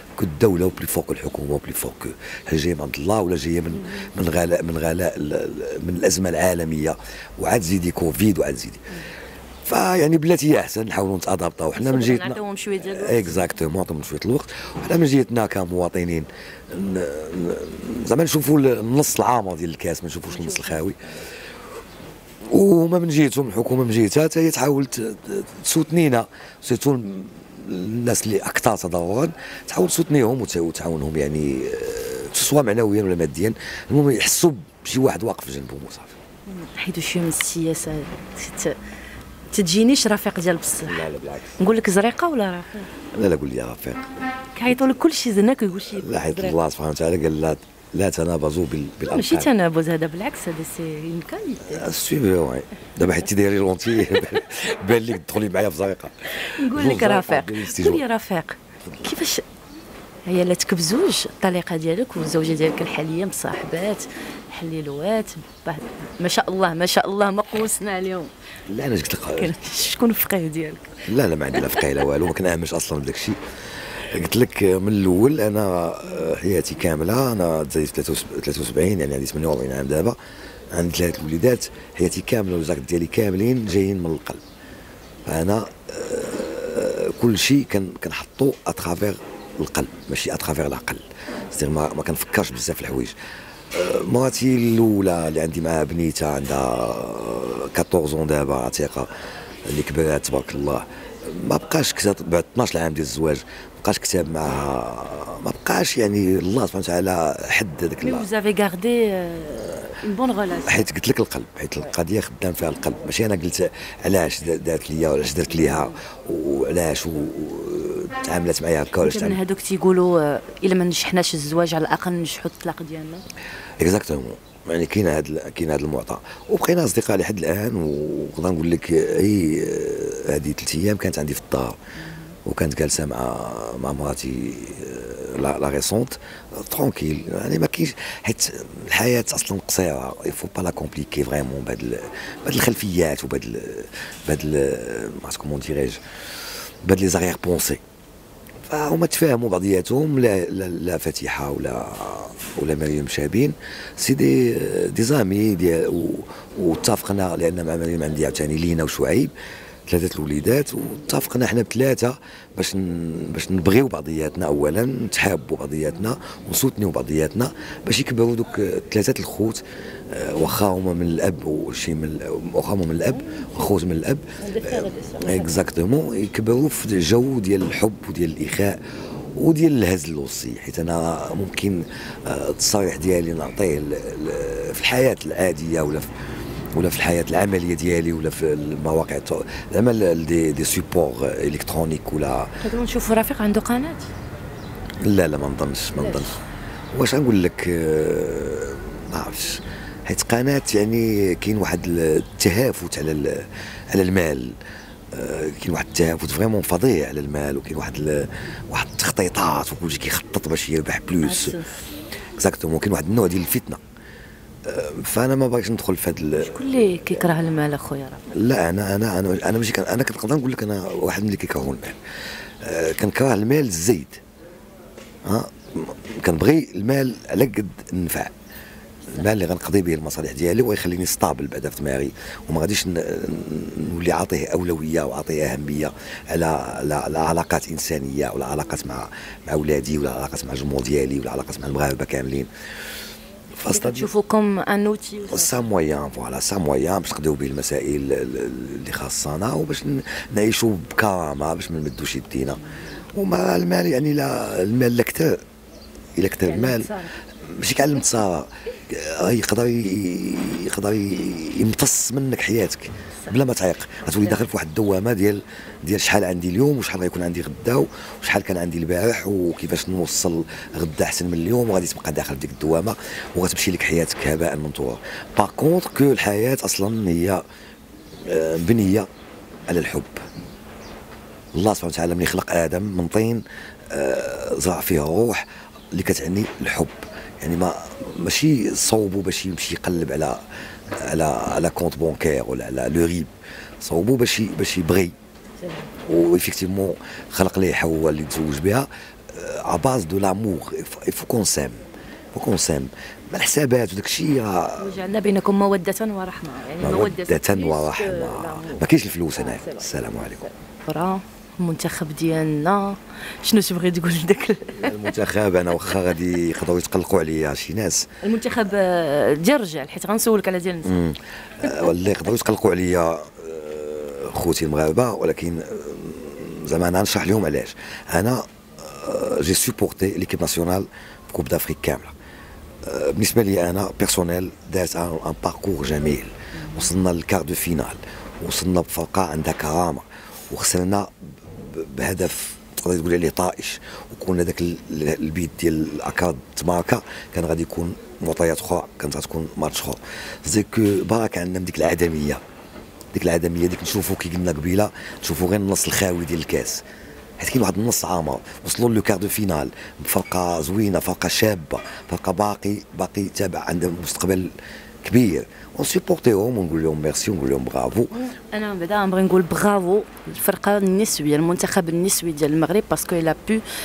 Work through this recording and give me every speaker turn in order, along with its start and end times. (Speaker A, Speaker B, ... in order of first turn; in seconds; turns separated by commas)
Speaker A: 0.2-8.8, Speaker B: 3.8-4.1, Speaker A: 9.6-21.0, Speaker B: 11.7-13.5, Speaker B: 20.3-20.9, Speaker A: 22.5-36.1, Speaker B: 36.5-38.8, Speaker B: 39.5-41.1, Speaker A: 40.8-41.6, Speaker B: 41.6-42.9, Speaker A: 43.1-44.1, Speaker B: 44.5-46.6, Speaker A: 45.9-49.5, Speaker B: 49.1-51.9, Speaker A: 51.6-58.0, Speaker B: 56.4-59.4, Speaker B: 60.2-68.3, Speaker A: 68.7-69.5, Speaker B: 69.3-70.9, Speaker A: 71.1-73.4, Speaker B: 71.5-71.8, Speaker A: 74.0-80.2, Speaker A: 80.7-84.4, Speaker A: 85.2-93.2, Speaker A: 93.7-99.1, Speaker A: 99.7-108.3, Speaker B: 108.0-110.8, Speaker A: 110.6-119.4, Speaker B: 115.5-116.0, Speaker B: 119.0-123.2, Speaker A: 123.8-131.8, Speaker A: 132.4-146.0, Speaker A: 146.8-147.8, Speaker A: 148.7-159.3, Speaker A: 159.9-178.8, Speaker B: 173.1-173.5, Speaker B: 174.4-175.6, Speaker A: 179.3-186.1, Speaker A: 186.7-192.5, Speaker B: 192.6-194.1, Speaker A: 195.0-196.4, Speaker B: 195.9-196.3, Speaker A: 196.9-204.6, Speaker A: 205.1-211.6, Speaker B: 211.2-211.8, Speaker A: 212.4-213.8, Speaker A: 214.6-216.8, Speaker B: 216.4-218.2, Speaker A: 218.3-222.0, Speaker A: 222.6-224.2, Speaker A: 225.2-228.3, Speaker A: 229.1-242.5, Speaker A: 243.5-244.1, Speaker B: 243.7-245.7, Speaker A: 245.3-252.6, Speaker A: 253.1-255.4, Speaker A: 256.2-256.9, Speaker B: 256.4-257.1, Speaker A: 257.4-277.4, Speaker A: 278.2-279.1, Speaker A: 279.7-280.2, Speaker A: 281.5-290.4, Speaker A: 291.0-295.1, Speaker B: 295.6-295.9, Speaker A: 296.1-305.0, Speaker B: 304.8-315.1, Speaker A: 306.8-310.4, Speaker A: 314.7-318.1, Speaker B: 318.2-321.0, Speaker A: 320.8-332.1, Speaker B: 321.6-322.0, Speaker A: 332.8-352.4, Speaker B: 336.6-336.9, Speaker A: 353.1-356.8, Speaker A: 357.4-368.1, Speaker B: 368.1-373.6